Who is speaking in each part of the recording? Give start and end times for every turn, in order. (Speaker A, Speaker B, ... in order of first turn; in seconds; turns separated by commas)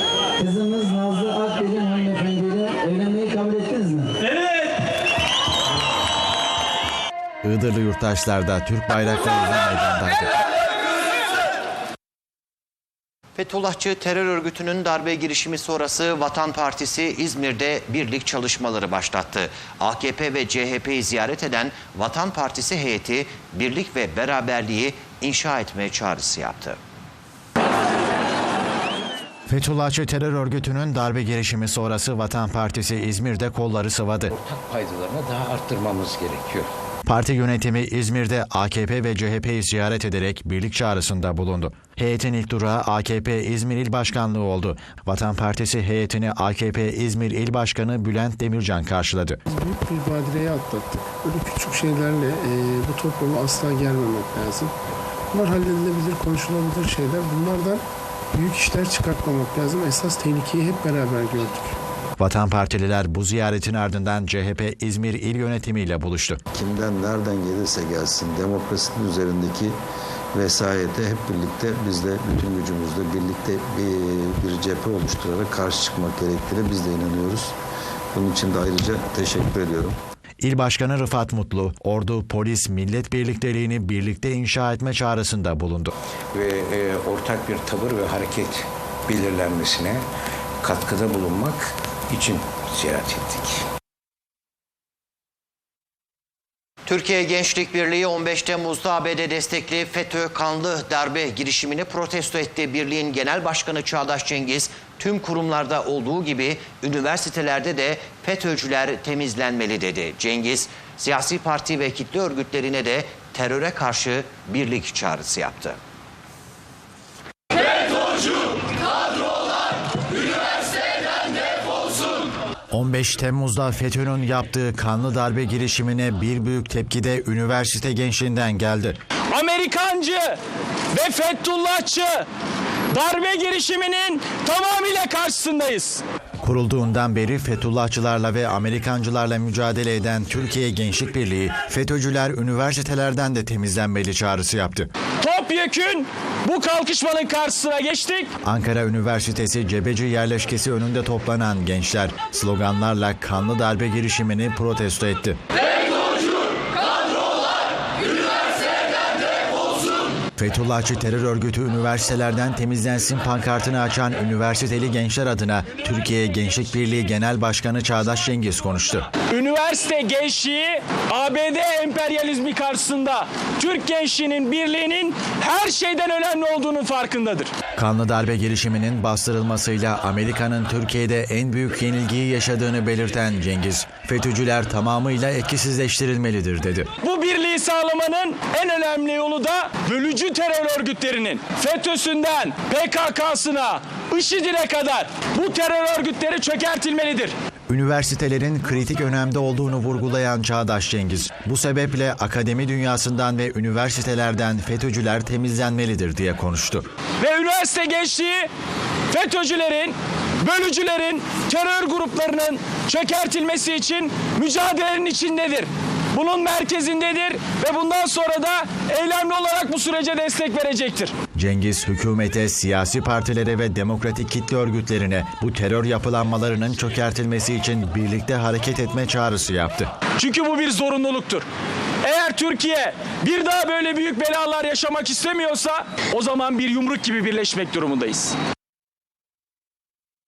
Speaker A: 0.4-4.2, Speaker B: 7.4-10.3, Speaker C: 13.4-26.8, Speaker B: 29.5-34.3, Speaker D: 34.3-36.7, Speaker B: 37.1-49.4, Speaker E: 49.5-54.7, Speaker E: 55.3-57.8, Speaker E: 58.3-61.7, Speaker B: 62.2-66.4, Speaker F: 66.5-69.8, Speaker F: 70.3-77.5, Speaker F: 78.1-80.0, Speaker B: 80.4-85.9, Speaker D: 86.3-90.0, Speaker D: 90.6-93.6, Speaker C: 96.9-115.8, Speaker B: 122.7-129.0, Speaker G: 129.3-130.4, Speaker G: 130.9-132.3, Speaker G: 132.9-136.0, Speaker B: 136.4-144.9, Speaker G: 145.2-148.3, Speaker B: 148.4-155.4, Speaker B: 160.4-169.1, Speaker G: 169.3-177.5, Speaker B: 177.8-186.9, Speaker G: 187.0-197.3, Speaker B: 197.7-206.8, Speaker G: 207.2-208.5, Speaker G: 209.1-221.1, Speaker B: 221.3-229.9, Speaker G: 230.2-231.5, Speaker G: 232.0-238.4